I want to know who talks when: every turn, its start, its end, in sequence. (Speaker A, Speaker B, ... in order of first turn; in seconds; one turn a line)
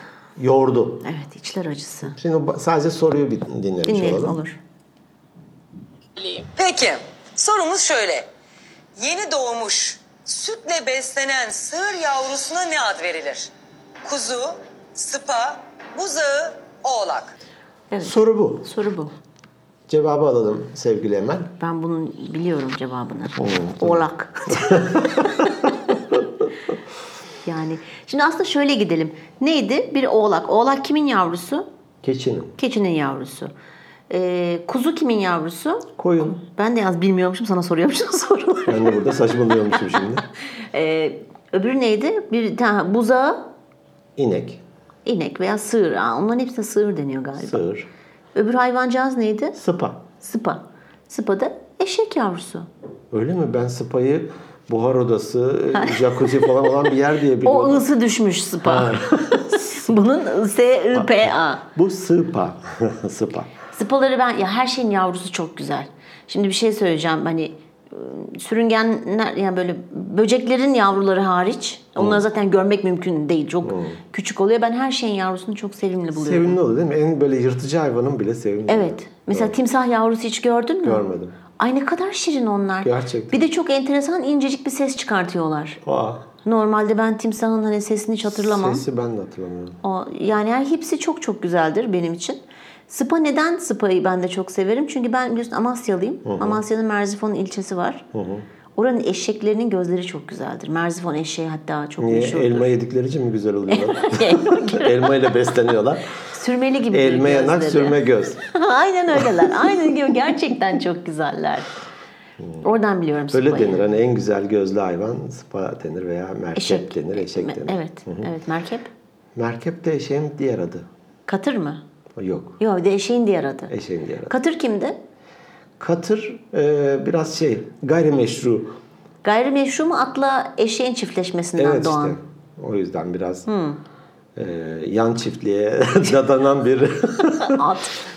Speaker A: 0.4-1.0
Speaker B: 1.0-2.1
Speaker A: 2.1-4.4
Speaker B: 3.8-4.6
Speaker C: 6.2-8.3
Speaker C: 9.0-13.5
Speaker C: 14.0-17.3
Speaker B: 17.9-19.1
Speaker A: 18.0-18.7
Speaker A: 19.9-21.5
Speaker B: 21.6-25.5
Speaker A: 23.4-26.2
Speaker B: 27.4-31.6
Speaker A: 32.0-32.5
Speaker B: 32.6-33.5
Speaker B: 34.1-40.0
Speaker A: 36.0-36.4
Speaker A: 38.7-40.2
Speaker B: 40.7-43.5
Speaker A: 44.1-44.6
Speaker B: 45.0-47.6
Speaker A: 47.4-47.9
Speaker B: 48.3-49.6
Speaker A: 49.5-50.0
Speaker B: 50.2-52.7
Speaker A: 53.1-57.9
Speaker B: 55.7-56.7
Speaker B: 57.4-61.6
Speaker A: 58.6-59.9
Speaker A: 60.9-63.5
Speaker B: 63.7-76.6
Speaker A: 72.0-72.2
Speaker A: 73.6-74.0
Speaker A: 76.1-79.6
Speaker B: 78.7-81.0
Speaker A: 80.8-81.4
Speaker B: 81.6-85.8
Speaker A: 82.8-83.5
Speaker A: 85.8-86.2
Speaker B: 86.4-88.8
Speaker A: 88.3-89.8
Speaker B: 89.8-98.0
Speaker A: 96.2-96.6
Speaker A: 98.1-98.5
Speaker B: 98.8-102.7
Speaker A: 102.0-106.1
Speaker B: 103.7-105.3
Speaker B: 106.2-111.7
Speaker A: 106.9-108.4
Speaker A: 109.1-110.1
Speaker A: 112.4-112.7
Speaker B: 112.6-113.9
Speaker A: 113.3-118.3
Speaker B: 116.5-118.9
Speaker A: 119.3-120.8
Speaker B: 121.3-121.8
Speaker A: 122.2-122.6
Speaker B: 122.6-123.7
Speaker A: 123.7-124.3
Speaker B: 124.3-125.0
Speaker A: 125.8-128.7
Speaker B: 129.2-132.2
Speaker A: 131.6-133.5
Speaker B: 133.5-133.8
Speaker A: 134.3-137.7
Speaker B: 137.4-138.0